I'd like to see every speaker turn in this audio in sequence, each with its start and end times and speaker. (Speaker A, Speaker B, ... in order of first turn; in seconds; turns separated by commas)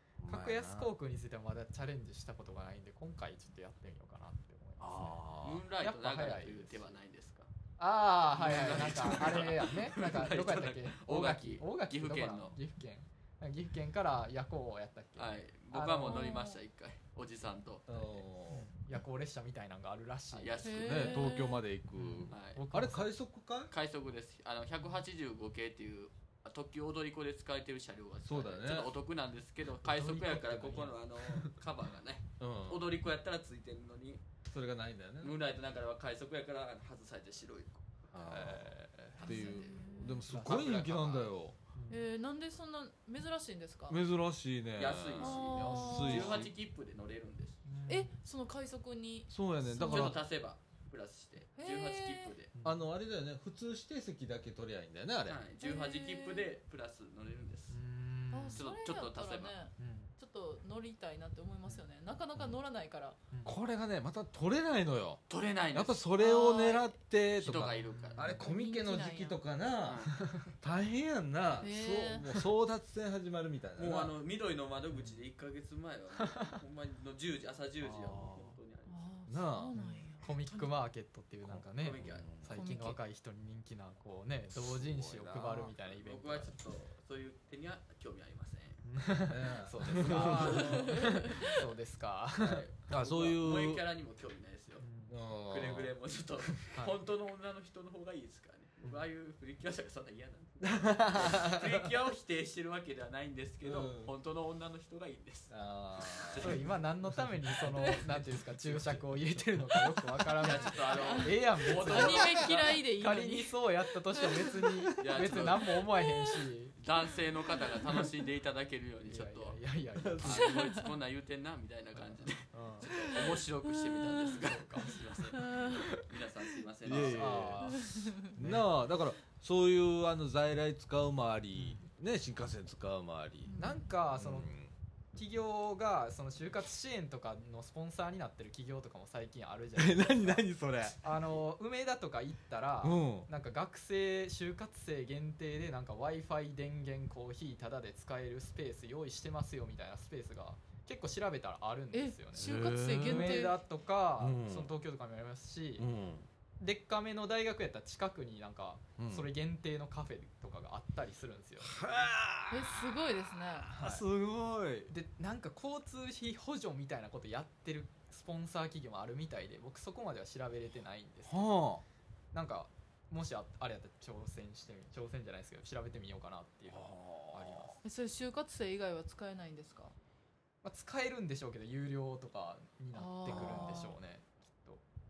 Speaker A: 0.2-0.9, Speaker B: 0.3-5.2, Speaker A: 4.8-5.6, Speaker C: 5.4-7.5, Speaker B: 5.8-7.0, Speaker B: 7.8-16.4, Speaker C: 8.3-12.6, Speaker A: 8.5-9.4, Speaker C: 15.2-18.2, Speaker D: 16.0-16.6, Speaker A: 17.9-18.7, Speaker B: 18.5-20.7, Speaker C: 20.3-21.3, Speaker D: 20.6-21.6, Speaker A: 20.8-23.7, Speaker B: 21.9-23.1, Speaker C: 22.3-22.6, Speaker C: 23.7-34.2, Speaker A: 28.2-28.9, Speaker B: 29.8-31.5, Speaker A: 32.4-32.9, Speaker A: 34.5-35.3, Speaker C: 35.2-38.4, Speaker A: 38.1-41.5, Speaker B: 38.2-39.3, Speaker C: 39.2-41.3, Speaker D: 39.2-40.2, Speaker B: 40.2-40.8, Speaker B: 41.7-42.0, Speaker D: 41.9-44.0, Speaker A: 43.9-46.5, Speaker C: 44.8-47.6, Speaker D: 45.2-46.4, Speaker B: 47.6-48.1, Speaker D: 47.9-50.2, Speaker A: 49.3-50.2, Speaker C: 49.7-52.5, Speaker D: 51.6-52.3, Speaker B: 52.5-52.9, Speaker A: 52.6-55.4, Speaker C: 55.3-57.8, Speaker D: 55.6-56.5, Speaker B: 57.7-58.6, Speaker D: 58.3-63.2, Speaker C: 58.5-59.5, Speaker B: 59.8-60.1, Speaker B: 63.3-63.6, Speaker A: 63.4-70.1, Speaker C: 65.3-66.0, Speaker D: 66.2-66.9, Speaker C: 67.4-68.4, Speaker B: 67.9-68.4, Speaker D: 68.4-69.4, Speaker C: 69.8-70.3, Speaker B: 70.2-70.5, Speaker A: 70.6-74.1, Speaker D: 71.6-72.3, Speaker C: 73.8-79.1, Speaker B: 74.9-75.2, Speaker B: 76.2-76.5, Speaker B: 77.8-78.3, Speaker A: 78.0-78.3, Speaker D: 78.9-80.7, Speaker A: 79.3-80.1, Speaker B: 79.8-86.5, Speaker A: 81.4-82.5, Speaker C: 81.8-82.3, Speaker D: 82.5-83.0, Speaker A: 84.5-85.7, Speaker C: 85.8-88.8, Speaker B: 88.8-92.6, Speaker A: 89.3-90.7, Speaker C: 89.9-91.5, Speaker D: 90.7-91.4, Speaker C: 92.4-94.8, Speaker A: 92.9-93.8, Speaker B: 94.8-95.1, Speaker A: 95.1-95.9, Speaker C: 95.5-106.7, Speaker A: 100.7-101.8, Speaker A: 103.6-104.1, Speaker A: 105.5-106.6, Speaker B: 106.4-116.8, Speaker A: 107.8-109.0, Speaker C: 110.4-112.7, Speaker D: 110.8-113.6, Speaker D: 114.2-114.9, Speaker A: 114.8-115.3, Speaker C: 115.0-115.8, Speaker D: 115.9-116.5, Speaker C: 116.8-119.6, Speaker B: 119.0-120.6, Speaker A: 120.0-120.6, Speaker C: 120.2-127.5, Speaker D: 120.5-120.8, Speaker B: 122.0-122.9, Speaker D: 123.6-124.3, Speaker B: 124.4-126.1, Speaker D: 125.3-125.9, Speaker A: 126.8-133.5, Speaker B: 126.9-128.7, Speaker D: 127.7-128.3, Speaker B: 131.6-131.9, Speaker D: 133.4-133.9, Speaker B: 133.6-134.5, Speaker A: 134.2-134.7, Speaker B: 135.1-140.4, Speaker A: 139.8-141.0, Speaker B: 141.0-155.9, Speaker A: 142.8-143.3, Speaker D: 151.9-153.6, Speaker A: 152.3-153.5, Speaker A: 154.2-154.7, Speaker A: 155.8-156.3, Speaker B: 156.6-162.1, Speaker A: 159.0-159.3, Speaker A: 161.6-164.9, Speaker D: 162.5-163.7, Speaker B: 163.8-164.0, Speaker B: 164.9-171.6, Speaker A: 171.2-171.8, Speaker B: 172.3-177.8, Speaker A: 176.7-177.8, Speaker D: 177.8-179.9, Speaker B: 180.6-184.8, Speaker D: 182.9-183.9, Speaker A: 183.3-183.8